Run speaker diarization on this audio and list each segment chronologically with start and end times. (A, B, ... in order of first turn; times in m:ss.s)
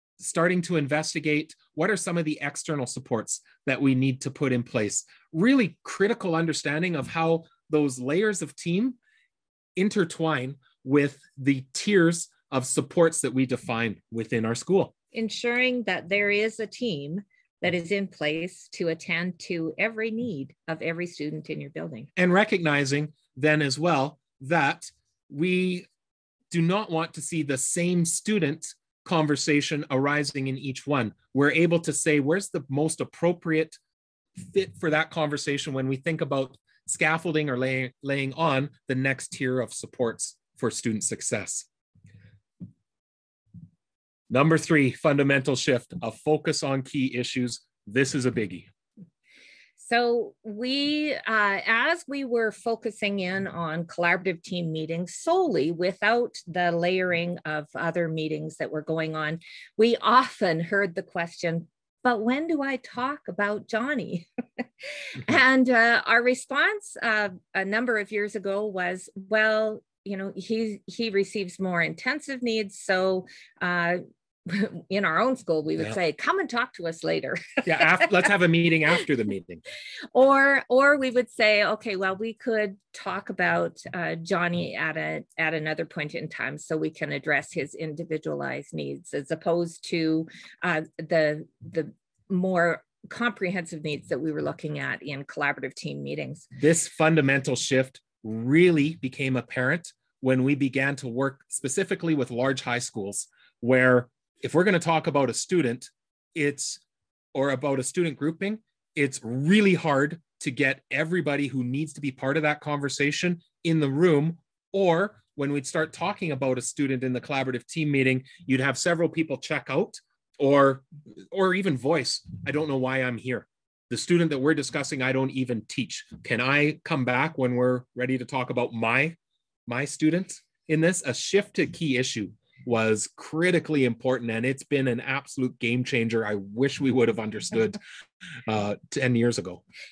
0:00.2-0:09.0 A
0:09.8-0:14.9 A
0:15.1-0:22.1 B
0:22.2-0:25.9 A
0:26.5-0:33.8 A
0:34.4-0:41.7 A
0:44.3-0:48.7 A
0:49.8-1:04.3 B
1:05.1-1:18.1 B
1:17.6-1:19.6 A
1:20.1-1:36.5 B
1:36.6-1:46.8 A
1:47.3-2:09.2 A
2:09.7-2:17.8 A
2:18.5-2:19.6 A